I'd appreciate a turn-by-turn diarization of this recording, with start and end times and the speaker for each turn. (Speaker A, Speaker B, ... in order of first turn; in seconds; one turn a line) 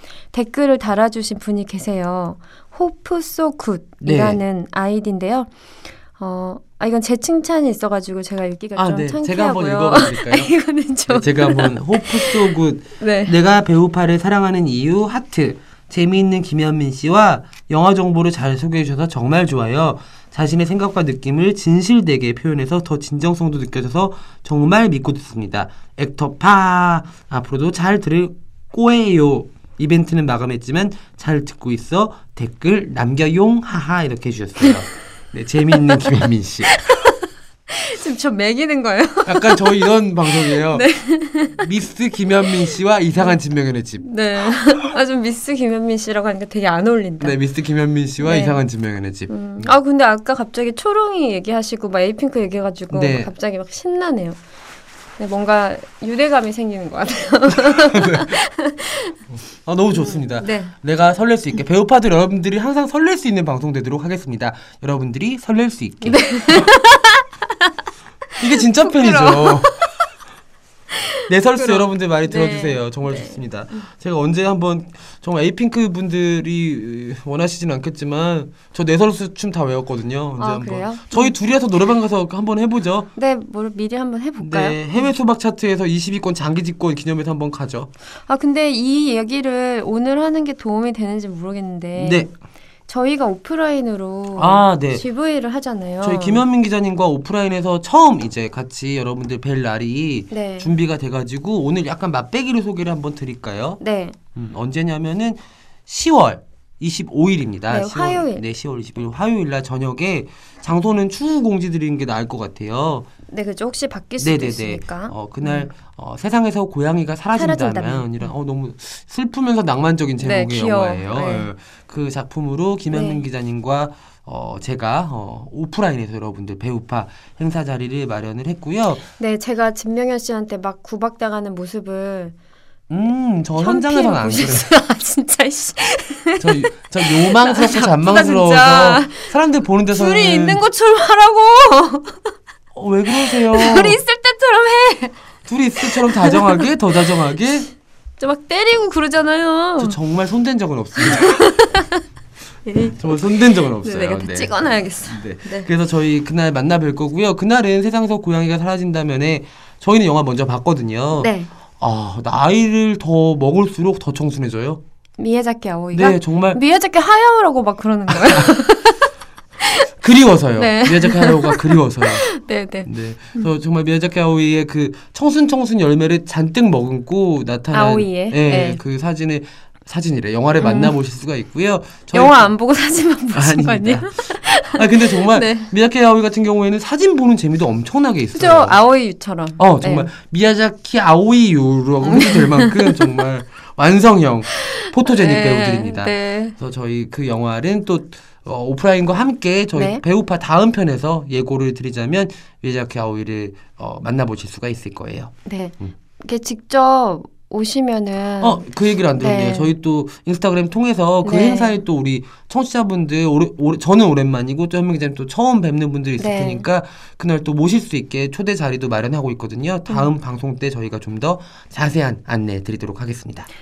Speaker A: 0.3-5.5
Speaker B: 4.0-4.4
Speaker A: 6.2-13.3
Speaker B: 8.8-10.5
Speaker B: 11.1-36.8
Speaker A: 36.7-37.1
Speaker A: 37.7-41.7
Speaker B: 39.2-40.9
Speaker B: 41.6-44.0
Speaker A: 44.0-47.4
Speaker B: 47.2-49.7
Speaker A: 48.2-48.6
Speaker A: 49.3-54.4
Speaker B: 52.9-53.3
Speaker A: 55.2-59.2
Speaker B: 57.6-58.3
Speaker B: 59.6-66.7
Speaker A: 59.9-60.7
Speaker A: 66.0-67.2
Speaker A: 68.3-70.0
Speaker B: 68.4-69.9
Speaker A: 70.9-73.9
Speaker B: 71.3-83.1
Speaker A: 80.4-81.3
Speaker A: 83.2-85.1
Speaker B: 84.4-87.9
Speaker A: 88.3-92.3
Speaker B: 92.0-92.3
Speaker A: 92.9-96.4
Speaker B: 94.3-95.0
Speaker B: 96.0-103.8
Speaker A: 100.3-100.7
Speaker A: 103.8-104.2
Speaker B: 104.3-113.1
Speaker A: 107.7-108.4
Speaker A: 113.3-115.7
Speaker B: 114.2-129.0
Speaker A: 117.3-118.3
Speaker A: 120.2-121.5
Speaker A: 122.9-123.2
Speaker A: 129.2-132.3
Speaker B: 132.9-134.7
Speaker A: 133.6-139.3
Speaker B: 136.4-140.6
Speaker A: 139.9-142.3
Speaker B: 142.7-144.0
Speaker A: 143.1-145.2
Speaker B: 145.4-147.7
Speaker A: 145.8-146.7
Speaker A: 148.2-150.0
Speaker B: 149.8-151.6
Speaker A: 151.0-152.0
Speaker A: 152.6-155.7
Speaker B: 152.9-164.8
Speaker A: 161.2-161.5
Speaker A: 165.2-169.0
Speaker B: 165.9-166.6
Speaker B: 168.1-168.5
Speaker A: 169.6-169.9
Speaker B: 170.0-172.3
Speaker A: 170.6-173.5
Speaker B: 172.8-182.5
Speaker A: 177.7-178.8
Speaker A: 180.6-180.9
Speaker A: 182.1-185.7
Speaker B: 183.3-188.8
Speaker A: 188.3-190.1
Speaker B: 189.6-205.9
Speaker A: 192.0-193.2
Speaker A: 194.5-196.6
Speaker A: 199.7-200.0
Speaker A: 205.4-208.7
Speaker B: 208.4-223.5
Speaker A: 209.2-209.8
Speaker A: 211.2-211.8
Speaker A: 216.2-216.7